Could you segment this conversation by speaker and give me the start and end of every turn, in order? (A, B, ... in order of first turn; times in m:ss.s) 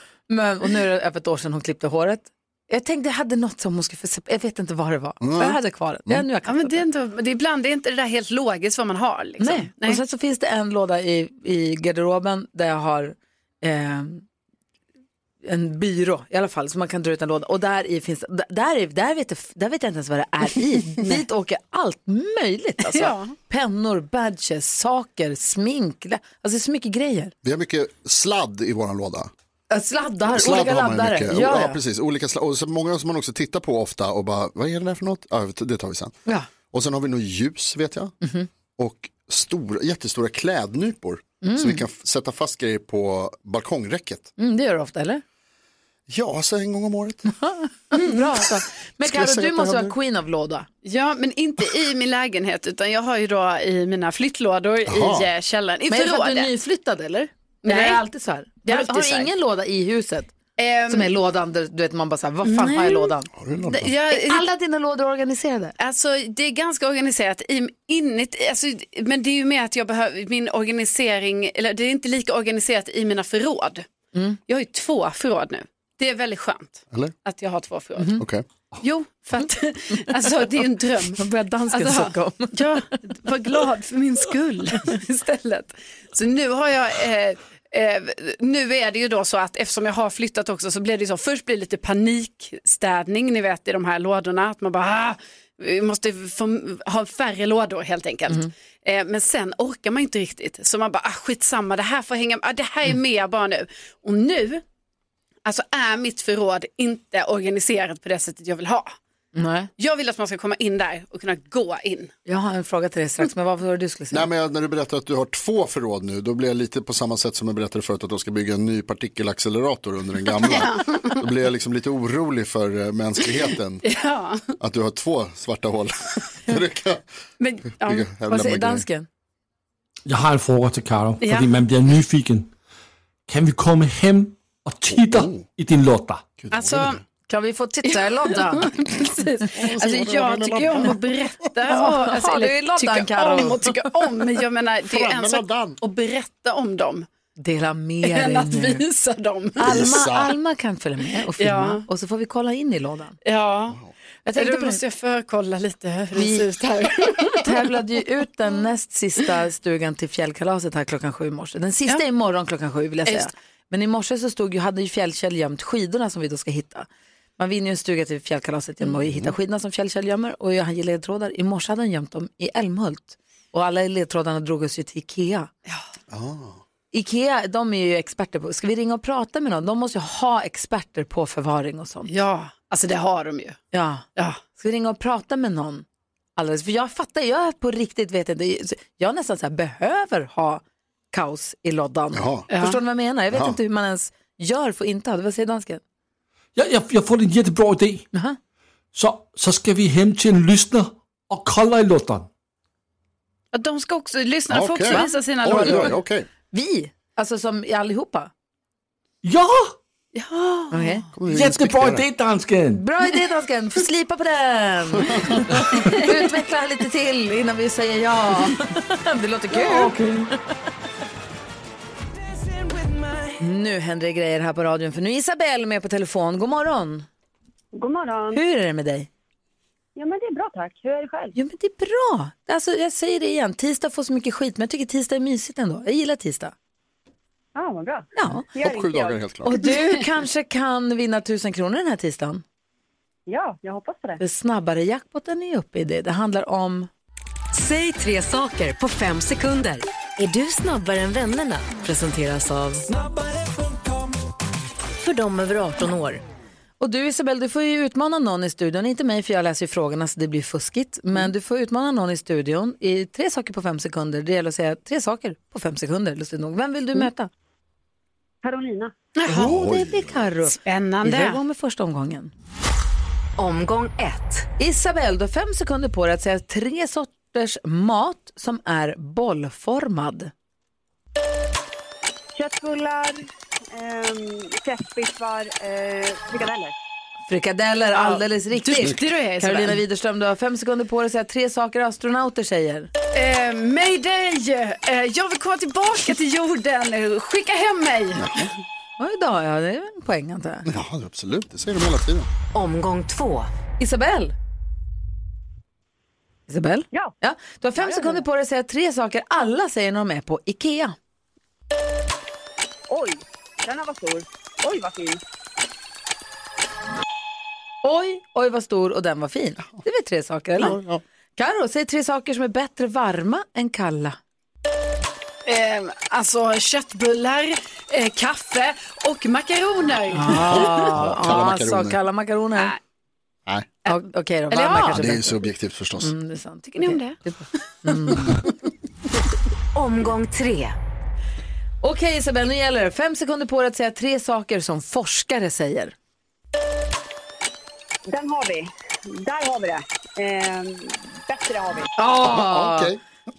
0:00.3-0:06.8 A
0:05.2-0:06.2 B
0:06.5-0:10.0 C
0:09.4-0:14.2 A
0:15.4-0:27.3 A
0:22.9-0:23.4 C
0:27.4-0:29.3 B
0:29.7-0:31.8 A
0:30.3-0:36.1 B
0:36.7-0:38.1 B
0:38.2-0:38.5 A
0:38.8-0:44.3 B
0:41.4-0:41.8 A
0:44.4-0:45.2 A
0:46.1-0:47.3 B
0:47.4-0:50.7 A
0:49.0-0:50.0 B
0:50.8-0:56.5 C
0:54.9-0:55.3 B
0:55.9-1:00.3 A
0:57.6-0:58.0 C
0:58.7-0:59.3 C
1:00.6-1:01.1 C
1:00.9-1:03.3 A
1:02.4-1:03.1 C
1:03.4-1:03.9 B
1:03.7-1:04.5 C
1:04.1-1:05.8 A
1:05.8-1:13.8 C
1:14.5-1:18.2 C
1:18.0-1:18.2 A
1:18.2-1:18.4 B
1:18.8-1:25.0 C
1:21.1-1:22.8 A
1:24.8-1:25.7 A
1:26.1-1:44.6 C
1:45.4-1:49.0 C
1:49.4-1:49.7 A
1:49.8-1:52.1 C
1:52.3-1:54.3 A
1:54.1-2:03.8 B
2:00.4-2:01.1 C
2:03.8-2:04.5 C
2:04.6-2:07.0 B
2:07.4-2:08.1 C
2:07.8-2:08.8 B
2:08.3-2:09.1 A
2:10.1-2:12.5 D
2:11.2-2:11.5 C
2:13.3-2:16.3 D
2:14.9-2:15.5 B
2:16.4-2:17.0 B
2:16.5-2:17.0 C
2:17.3-2:18.7 A
2:17.9-2:27.1 C
2:19.6-2:21.0 B
2:21.7-2:23.9 A
2:24.9-2:25.8 B
2:27.4-2:28.8 A
2:28.0-2:29.9 C
2:29.6-2:33.2 A
2:29.6-2:30.3 B
2:31.4-2:31.8 C
2:33.2-2:33.8 C
2:34.2-2:34.8 A
2:34.4-2:37.5 C
2:36.2-2:36.5 A
2:37.3-2:55.5 A
2:49.0-2:49.3 B
2:56.1-2:56.6 B
2:56.9-3:02.1 A
3:02.1-3:03.6 C
3:03.7-3:05.8 A
3:06.4-3:15.8 A
3:12.1-3:12.5 B
3:12.5-3:12.8 C
3:13.3-3:13.6 B
3:16.6-3:18.1 D
3:18.9-3:22.3 D
3:23.5-3:26.0 C
3:24.5-3:26.3 B
3:24.9-3:25.9 A
3:26.5-3:28.3 A
3:29.2-3:29.8 D
3:30.1-3:31.0 C
3:30.7-3:31.0 A
3:31.2-3:32.1 B
3:31.3-3:32.8 D
3:32.7-3:40.0 A
3:39.6-3:40.3 D
3:43.4-3:47.1 A
3:47.7-3:48.4 E
3:48.3-3:49.1 A
3:50.0-3:51.4 E
3:51.4-3:56.5 A
3:57.6-3:59.2 E
3:58.2-3:58.5 A
3:58.6-3:59.5 B
3:59.4-4:02.4 A
4:03.3-4:04.2 E
4:04.2-4:06.9 A
4:07.5-4:12.9 F
4:15.0-4:16.2 F
4:16.8-4:27.3 A
4:28.4-4:29.0 E
4:29.2-4:29.5 C
4:29.3-4:30.3 B
4:29.3-4:32.3 A
4:30.6-4:31.4 C
4:33.4-4:34.5 F
4:34.6-4:40.3 A
4:42.4-4:46.8 E
4:47.3-4:52.9 A
4:48.0-4:49.8 C
4:53.1-4:58.5 C
4:58.2-4:58.5 B
4:59.0-5:00.7 A
5:00.7-5:02.3 B
5:02.5-5:03.5 F
5:03.8-5:04.3 A
5:06.5-5:11.0 A
5:12.9-5:15.2 E
5:17.8-5:20.8 A
5:20.6-5:21.0 B
5:21.4-5:24.2 A
5:25.5-5:30.9 C
5:30.1-5:32.7 A
5:30.4-5:32.0 B
5:33.9-5:35.0 C
5:33.9-5:35.4 A
5:34.8-5:36.1 B
5:36.0-5:38.4 A
5:36.8-5:37.2 C
5:39.8-5:40.8 F
5:41.8-5:46.0 A
5:48.1-5:51.9 E
5:52.0-5:52.9 A
5:52.2-5:53.0 B